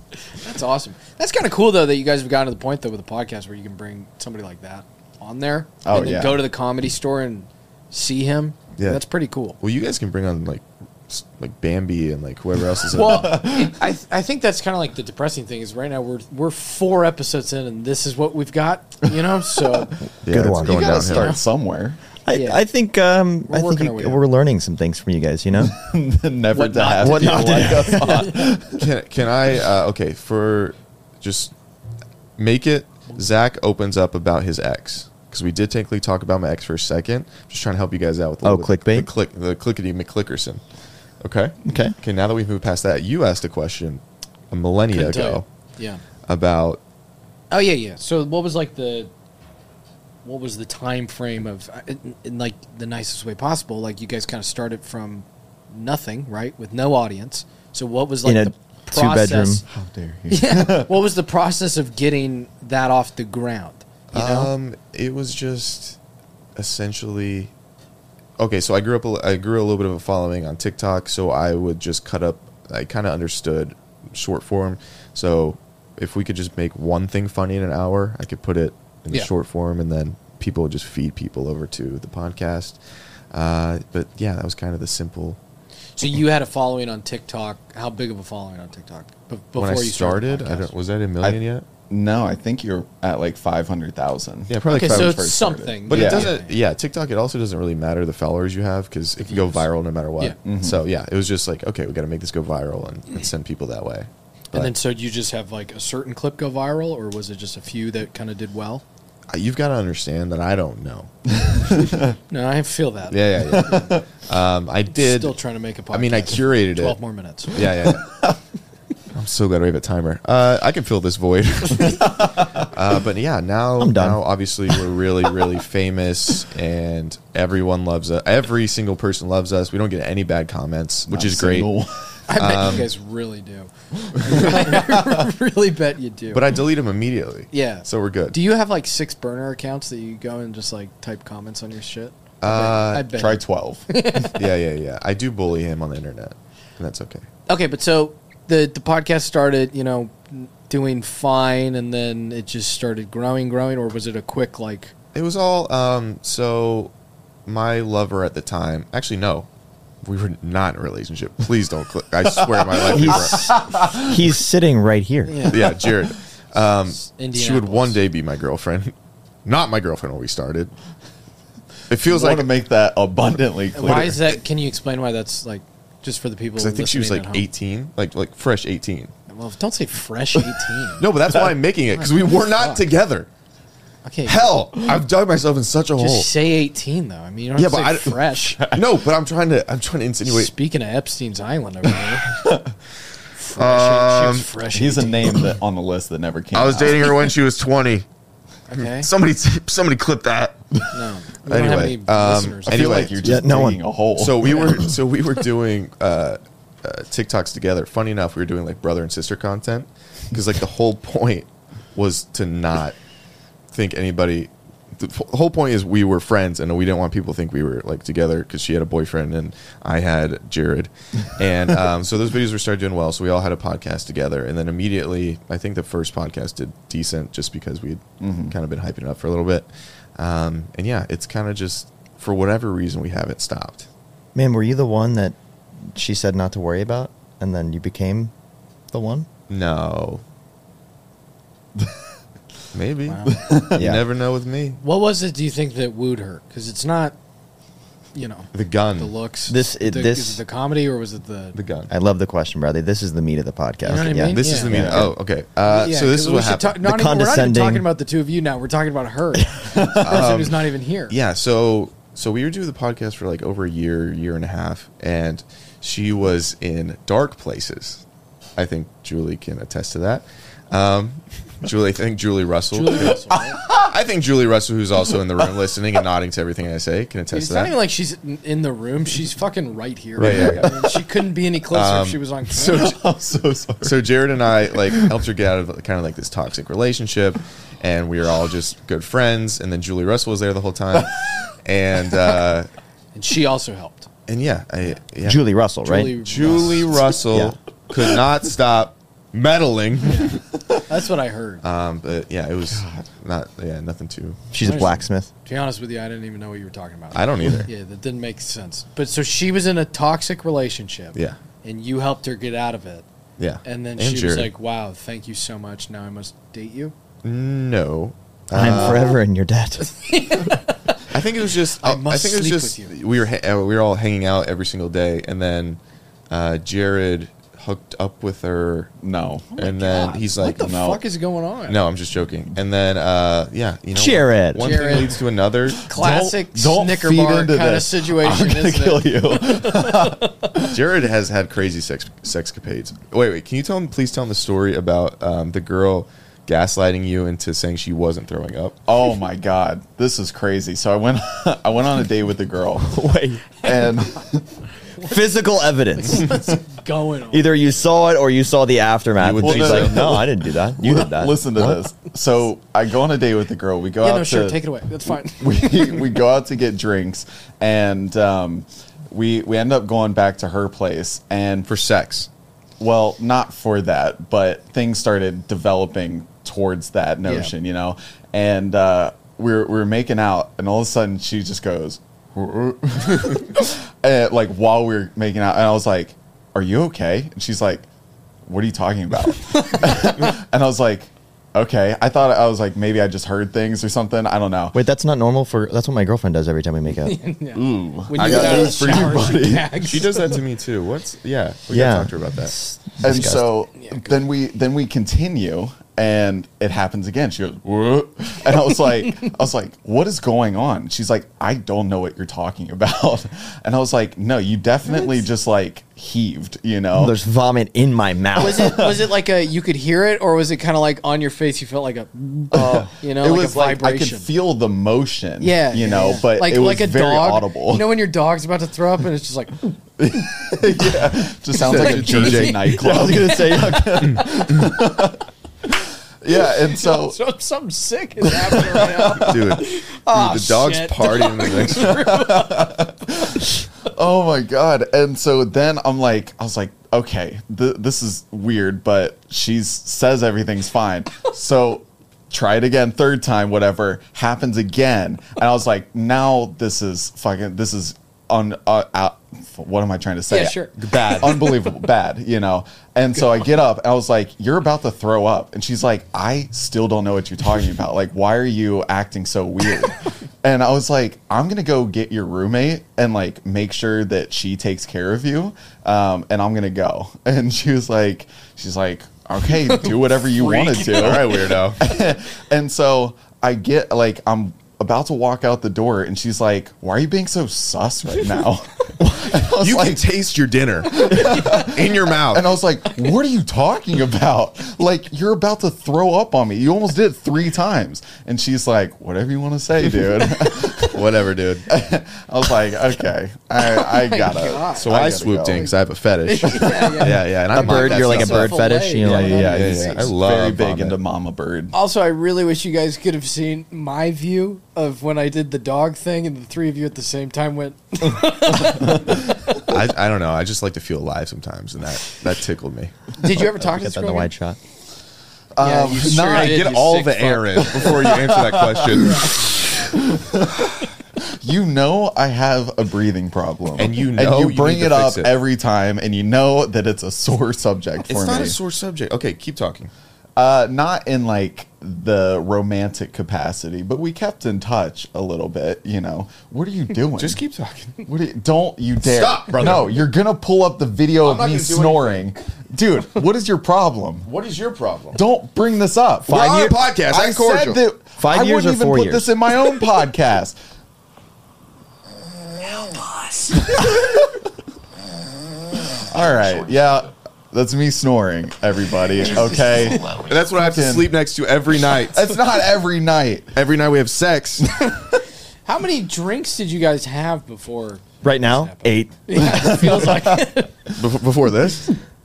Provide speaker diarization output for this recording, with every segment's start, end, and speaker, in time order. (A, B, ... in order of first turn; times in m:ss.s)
0:00.3-0:09.6 A
0:05.8-0:06.4 B
0:08.8-0:09.0 C
0:09.6-0:13.4 C
0:12.9-0:20.0 A
0:12.9-0:13.8 B
0:20.2-0:21.4 C
0:20.3-0:21.0 D
0:20.6-0:22.0 B
0:21.0-0:21.4 A
0:22.3-0:25.8 D
0:22.3-0:22.6 A
0:23.5-0:24.2 A
0:25.6-0:28.9 B
0:26.5-0:28.5 A
0:27.0-0:28.3 D
0:28.8-0:31.5 C
0:32.4-0:40.6 C
0:38.4-0:39.1 D
0:41.2-0:45.4 C
0:41.6-0:42.0 D
0:44.9-0:46.0 A
0:46.3-0:46.8 C
0:47.5-0:49.1 A
0:50.2-0:59.6 A
0:58.2-0:59.6 D
0:59.7-1:00.9 B
1:00.3-1:04.5 A
1:04.1-1:06.0 C
1:06.6-1:07.5 C
1:08.4-1:22.8 C
1:23.3-1:25.4 C
1:26.0-1:30.7 A
1:29.6-1:31.6 C
1:31.2-1:36.3 B
1:34.5-1:35.3 C
1:34.7-1:36.6 A
1:35.9-1:44.7 C
1:39.2-1:39.7 A
1:40.4-1:40.8 B
1:44.5-1:48.8 A
1:49.3-1:51.1 C
1:51.5-1:52.1 B
1:52.3-1:53.9 A
1:53.1-1:55.4 C
1:53.5-1:54.0 B
1:54.9-1:57.7 A
1:55.9-1:57.0 C
1:57.5-1:58.1 C
1:58.0-1:58.3 B
1:59.1-2:11.7 C
2:01.9-2:02.5 B
2:03.8-2:04.2 D
2:11.1-2:12.1 B
2:12.3-2:16.5 A
2:12.3-2:12.9 C
2:14.3-2:14.8 B
2:16.3-2:18.4 C
2:17.5-2:24.4 A
2:22.4-2:23.1 C
2:23.1-2:24.3 B
2:24.3-2:27.3 C
2:27.5-2:34.9 A
2:35.1-2:36.9 C
2:37.5-2:39.5 C
2:40.0-2:43.6 C
2:42.5-2:44.2 B
2:42.9-2:45.6 D
2:45.3-2:45.7 A
2:45.5-2:48.9 C
2:47.0-2:48.0 A
2:49.4-2:50.7 C
2:51.9-2:52.5 C
2:52.1-2:54.3 B
2:53.8-2:57.5 A
2:56.6-2:59.1 C
2:59.3-3:01.1 A
3:01.0-3:03.3 C
3:02.0-3:02.8 A
3:04.0-3:04.6 A
3:04.3-3:06.3 C
3:06.0-3:08.6 A
3:07.6-3:10.5 C
3:08.6-3:08.8 B
3:10.2-3:12.4 A
3:12.3-3:12.7 B
3:13.4-3:15.4 A
3:13.6-3:14.5 C
3:14.7-3:17.2 B
3:16.5-3:18.1 C
3:18.7-3:19.1 A
3:18.8-3:20.9 C
3:20.9-3:23.1 A
3:21.4-3:23.4 C
3:22.7-3:24.9 B
3:23.2-3:23.8 D
3:24.2-3:33.0 C
3:33.7-3:53.9 C
3:48.2-3:48.6 B
3:54.4-3:58.3 D
3:58.9-3:59.3 D
3:59.5-4:00.2 C
4:02.7-4:04.8 C
4:03.1-4:03.4 A
4:03.3-4:04.0 B
4:03.8-4:04.0 D
4:04.8-4:07.2 A
4:08.2-4:11.6 A
4:08.5-4:09.1 C
4:09.5-4:10.4 D
4:11.5-4:11.9 C
4:11.9-4:15.1 D
4:13.8-4:14.8 A
4:14.3-4:16.8 C
4:14.7-4:15.1 B
4:15.7-4:21.2 A
4:16.8-4:17.9 D
4:19.7-4:20.2 B
4:20.0-4:28.0 C
4:28.6-4:33.2 C
4:32.7-4:33.6 A
4:33.5-4:33.9 B
4:33.7-4:37.7 C
4:37.3-4:43.0 A
4:40.2-4:40.8 C
4:40.2-4:41.0 B
4:41.7-4:42.2 C
4:42.5-4:44.0 B
4:43.8-4:52.7 C
4:44.7-4:45.1 B
4:53.2-4:54.1 A
4:54.3-4:55.4 C
4:55.2-4:56.2 D
4:55.8-4:57.0 A
4:56.0-5:00.4 C
4:57.3-4:57.6 D
5:00.0-5:01.6 A
5:01.6-5:04.5 C
5:02.7-5:03.0 B
5:04.5-5:05.3 D
5:04.6-5:13.1 A
5:07.1-5:07.7 C
5:13.4-5:14.5 C
5:13.6-5:17.0 A
5:17.2-5:19.2 C
5:18.5-5:19.9 D
5:19.8-5:21.1 A
5:21.1-5:25.8 C
5:21.8-5:22.9 A
5:26.3-5:28.9 C
5:29.0-5:31.0 B
5:29.6-5:30.7 C
5:29.7-5:31.8 A
5:31.7-5:35.9 C
5:33.9-5:34.8 D
5:34.6-5:35.2 A
5:35.7-5:40.8 B
5:35.9-5:40.3 A
5:40.7-5:48.8 C
5:48.9-5:53.0 B
5:52.8-5:53.4 D
5:53.6-5:54.6 B
5:55.0-5:56.4 D
5:56.0-5:57.8 A
5:57.3-6:01.8 D
5:59.2-6:00.3 C
5:59.4-6:04.6 B
6:04.0-6:06.1 A
6:05.4-6:11.7 B
6:11.7-6:12.3 C
6:12.8-6:27.9 B
6:17.2-6:17.5 A
6:28.4-6:34.8 B
6:34.7-6:37.2 D
6:37.0-6:40.4 A
6:37.6-6:39.9 B
6:38.1-6:42.5 C
6:41.7-6:43.5 D
6:43.0-6:57.2 B
6:43.8-6:44.2 A
6:54.9-6:55.2 A
6:56.9-6:58.9 D
6:58.4-7:04.3 A
6:58.6-6:58.9 B
7:02.5-7:07.9 B
7:05.4-7:09.7 A
7:10.0-7:17.2 B
7:11.5-7:12.8 C
7:11.6-7:13.6 A
7:12.7-7:14.2 D
7:16.4-7:22.9 A
7:18.3-7:19.5 B
7:19.2-7:22.2 C
7:22.1-8:10.0 B
7:40.3-7:41.7 A
7:40.8-7:41.5 C
7:59.5-8:01.5 A
8:00.8-8:01.8 C
8:09.0-8:12.6 C
8:10.9-8:21.0 B
8:20.8-8:21.7 C
8:21.7-8:25.7 B
8:23.6-8:25.7 A
8:24.8-8:28.6 C
8:26.2-8:30.1 A
8:26.4-8:27.1 B
8:27.5-8:29.5 D
8:29.0-8:31.7 B
8:29.4-8:31.0 C
8:31.7-8:39.3 A
8:39.6-8:43.0 C
8:43.2-8:44.3 A
8:43.6-8:44.6 D
8:45.6-8:46.8 B
8:45.6-8:48.0 A
8:46.0-8:49.4 C
8:47.6-8:50.7 B
8:49.0-8:49.4 A
8:51.3-8:58.6 B
8:53.8-8:55.4 C
8:58.1-8:59.9 C
9:00.4-9:07.4 B
9:07.2-9:08.0 C
9:08.0-9:14.3 B
9:09.0-9:10.1 C
9:11.2-9:12.3 C
9:14.3-9:15.2 C
9:15.1-9:16.4 B
9:16.3-9:16.8 D
9:16.3-9:17.8 C
9:17.1-9:20.6 B
9:18.2-9:19.3 D
9:23.1-9:23.7 C
9:23.6-9:24.3 B
9:26.1-9:31.1 B
9:29.4-9:32.4 C
9:29.7-9:30.1 A
9:32.1-9:33.6 B
9:33.6-9:34.7 C
9:35.6-9:40.8 A
9:38.2-9:39.2 D
9:39.4-9:40.4 B
9:40.9-9:41.9 C